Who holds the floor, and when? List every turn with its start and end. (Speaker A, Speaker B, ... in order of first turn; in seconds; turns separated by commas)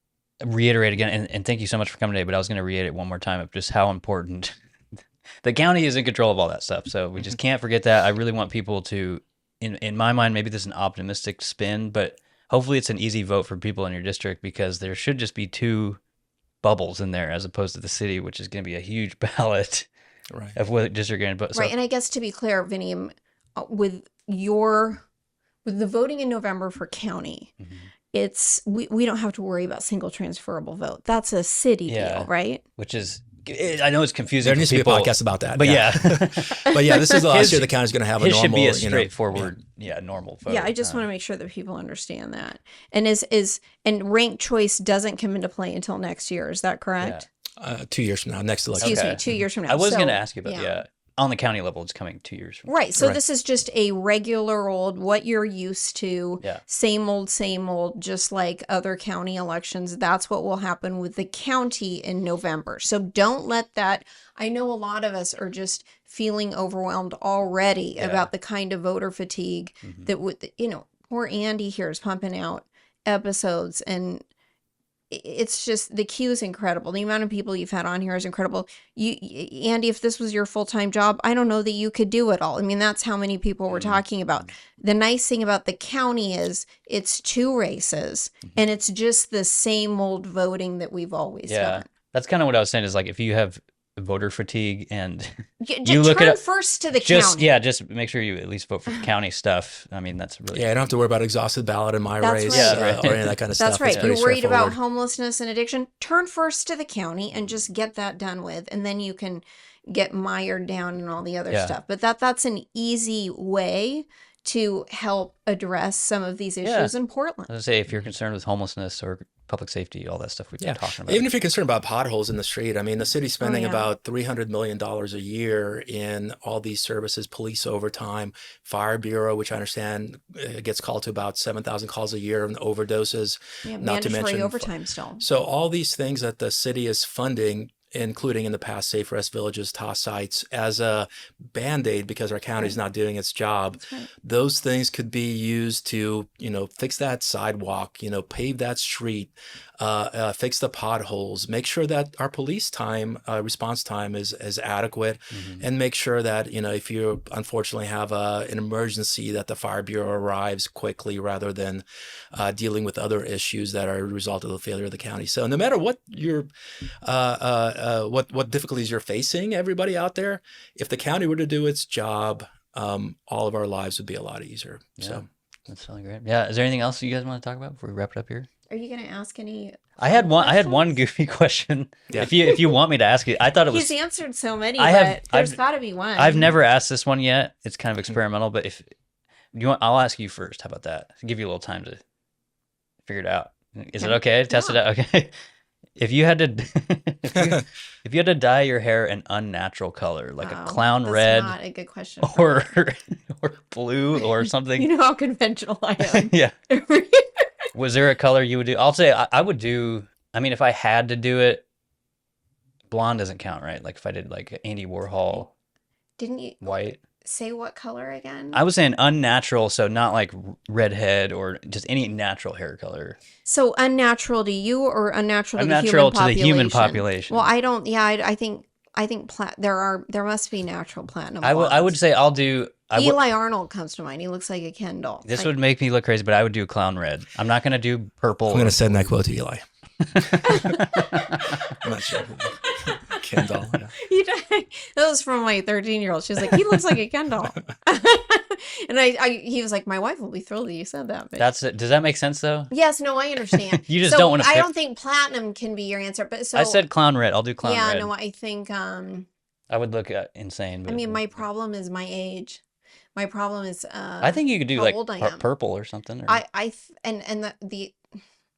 Speaker A: 0.4-4.5, Speaker A: 5.4-16.0, Speaker A: 16.6-19.9, Speaker B: 20.3-20.6, Speaker A: 20.6-21.7, Speaker C: 21.5-25.0, Speaker C: 25.6-27.5, Speaker A: 27.6-27.9, Speaker C: 28.1-32.6, Speaker A: 31.9-36.6, Speaker B: 34.4-39.5, Speaker C: 36.6-37.2, Speaker A: 37.2-41.1, Speaker C: 40.5-47.3, Speaker A: 47.0-47.2, Speaker B: 47.6-49.5, Speaker A: 48.8-52.7, Speaker C: 48.8-50.8, Speaker C: 52.7-74.2, Speaker A: 68.0-68.3, Speaker A: 69.8-70.1, Speaker C: 75.1-91.9, Speaker A: 83.7-84.0, Speaker A: 91.5-95.3, Speaker C: 95.6-97.5, Speaker A: 95.8-96.4, Speaker A: 96.9-100.7, Speaker B: 100.5-104.8, Speaker C: 102.2-103.0, Speaker A: 102.5-103.4, Speaker C: 103.6-117.5, Speaker A: 103.9-104.1, Speaker A: 111.5-111.8, Speaker A: 116.6-116.9, Speaker A: 117.5-121.3, Speaker B: 120.6-166.5, Speaker C: 123.4-123.9, Speaker C: 133.7-135.2, Speaker C: 143.8-144.1, Speaker A: 155.3-155.6, Speaker B: 167.0-175.3, Speaker A: 175.0-178.5, Speaker C: 178.7-181.0, Speaker A: 180.0-183.9, Speaker C: 182.3-182.8, Speaker C: 183.7-186.6, Speaker A: 184.8-185.6, Speaker A: 186.2-188.9, Speaker A: 189.5-192.0, Speaker A: 193.1-195.3, Speaker C: 194.0-194.8, Speaker A: 196.0-201.6, Speaker B: 197.3-197.6, Speaker C: 200.4-202.7, Speaker A: 202.2-204.9, Speaker C: 204.2-207.4, Speaker A: 206.0-206.5, Speaker A: 207.7-211.7, Speaker A: 212.9-215.5, Speaker C: 216.2-218.6, Speaker A: 216.6-217.0, Speaker A: 218.5-223.2, Speaker C: 223.4-232.0, Speaker A: 225.6-227.5, Speaker A: 231.4-233.2, Speaker C: 232.9-235.5, Speaker A: 235.2-239.1, Speaker B: 238.5-239.6, Speaker A: 240.1-241.7, Speaker B: 240.3-240.7, Speaker C: 240.4-241.1, Speaker B: 241.7-243.9, Speaker C: 242.6-251.5, Speaker A: 251.4-252.7, Speaker C: 252.7-256.8, Speaker A: 253.5-254.7, Speaker A: 256.5-258.1, Speaker C: 257.6-259.3, Speaker A: 259.7-261.5, Speaker C: 260.9-262.6, Speaker C: 263.1-265.5, Speaker A: 264.2-266.4, Speaker C: 266.3-268.0